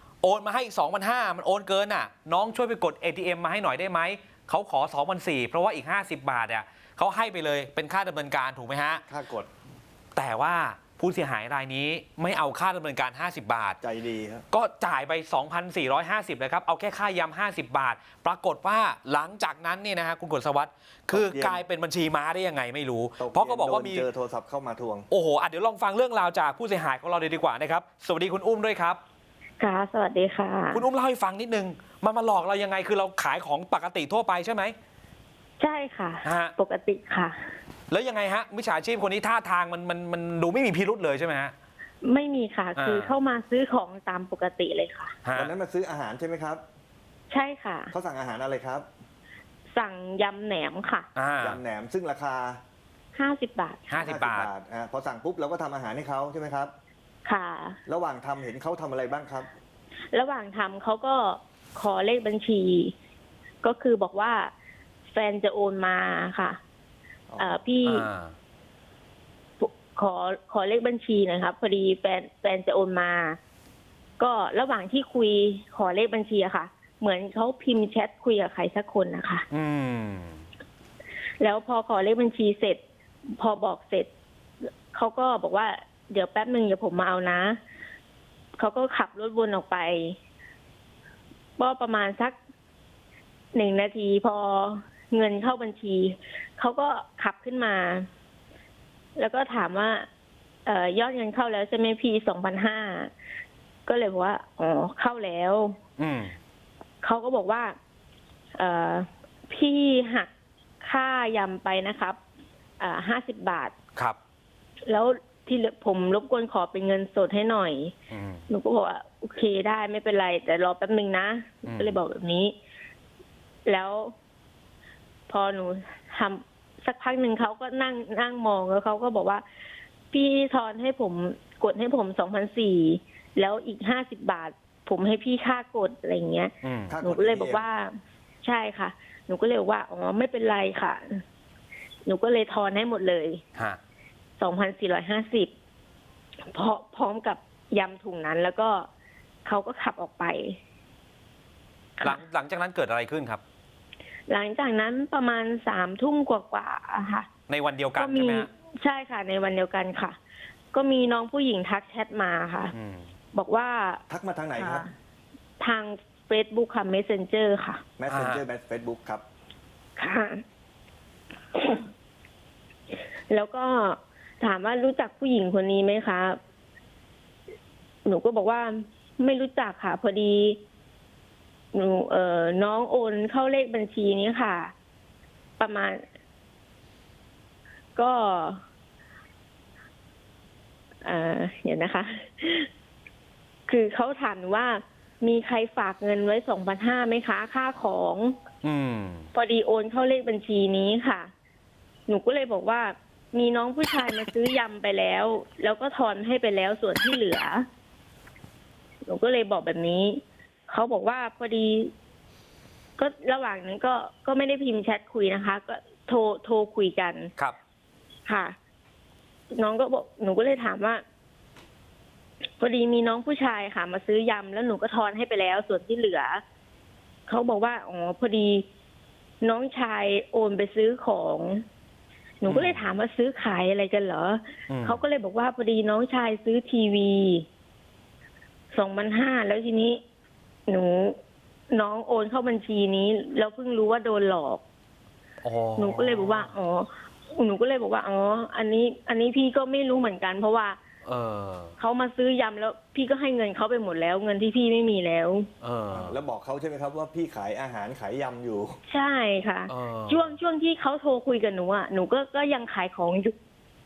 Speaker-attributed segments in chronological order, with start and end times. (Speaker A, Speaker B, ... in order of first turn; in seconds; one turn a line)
Speaker A: 0.2-9.1
Speaker B: 9.1-9.5
Speaker A: 10.2-13.8
Speaker B: 13.8-14.4
Speaker A: 14.5-24.1
Speaker B: 21.1-21.6
Speaker B: 23.2-25.1
Speaker A: 25.1-29.0
Speaker C: 29.6-30.9
Speaker A: 30.7-34.8
Speaker C: 35.6-37.5
Speaker A: 36.2-36.5
Speaker A: 37.9-41.5
Speaker C: 42.0-45.1
Speaker A: 42.8-43.2
Speaker A: 45.2-45.5
Speaker B: 45.4-46.6
Speaker C: 47.3-47.9
Speaker B: 47.9-48.9
Speaker C: 49.7-51.1
Speaker A: 51.1-51.6
Speaker B: 51.4-52.6
Speaker C: 53.1-54.0
Speaker A: 53.9-54.5
Speaker B: 54.0-56.7
Speaker C: 57.2-57.8
Speaker B: 57.9-59.5
Speaker C: 60.1-62.9
Speaker C: 63.6-64.5
Speaker C: 65.1-66.6
Speaker B: 67.3-67.6
Speaker C: 67.4-68.1
Speaker A: 67.8-68.3
Speaker C: 69.6-73.4
Speaker C: 74.2-79.5
Speaker A: 79.5-80.5
Speaker C: 81.4-82.8
Speaker C: 83.4-84.1
Speaker C: 84.9-87.6
Speaker C: 88.6-90.2
Speaker C: 91.6-92.4
Speaker C: 93.5-98.1
Speaker C: 99.2-100.1
Speaker C: 100.7-103.1
Speaker C: 103.9-105.8
Speaker A: 106.0-106.4
Speaker C: 107.0-107.8
Speaker C: 108.5-110.3
Speaker C: 110.8-112.2
Speaker C: 112.8-113.7
Speaker C: 114.9-118.0
Speaker A: 118.1-118.5
Speaker C: 118.5-122.6
Speaker A: 121.7-122.0
Speaker C: 123.7-124.2
Speaker C: 125.3-129.4
Speaker C: 130.1-141.2
Speaker A: 136.6-137.0
Speaker B: 136.9-137.7
Speaker C: 142.1-143.4
Speaker C: 144.4-145.5
Speaker C: 146.5-148.9
Speaker C: 149.4-150.6
Speaker A: 152.0-153.4
Speaker C: 154.3-157.3
Speaker A: 157.5-158.5
Speaker C: 158.0-160.2
Speaker C: 160.7-162.7
Speaker A: 162.7-163.1
Speaker C: 163.3-164.0
Speaker B: 164.1-164.9
Speaker C: 164.6-164.9
Speaker C: 165.6-167.8
Speaker B: 168.0-169.2
Speaker A: 168.1-168.4
Speaker C: 170.0-170.4
Speaker C: 171.5-171.9
Speaker C: 173.3-176.4
Speaker C: 178.1-180.6
Speaker C: 181.7-184.7
Speaker C: 185.6-186.0
Speaker C: 188.0-188.6
Speaker C: 191.0-192.7
Speaker C: 193.7-198.4
Speaker A: 198.6-199.3
Speaker C: 199.3-201.3
Speaker C: 202.1-207.7
Speaker C: 209.1-211.9
Speaker C: 213.0-217.3
Speaker C: 218.3-218.6
Speaker C: 219.5-221.0
Speaker C: 222.6-226.4
Speaker C: 227.3-228.7
Speaker C: 229.4-231.7
Speaker C: 232.4-237.5
Speaker A: 232.5-232.9
Speaker A: 234.7-235.0
Speaker C: 238.7-240.0
Speaker C: 240.7-241.2
Speaker C: 241.7-244.6
Speaker A: 245.4-246.5
Speaker C: 245.8-250.8
Speaker A: 251.0-251.8
Speaker C: 251.8-255.5
Speaker A: 255.6-256.2
Speaker B: 255.9-258.8
Speaker C: 258.9-263.4
Speaker A: 259.7-260.4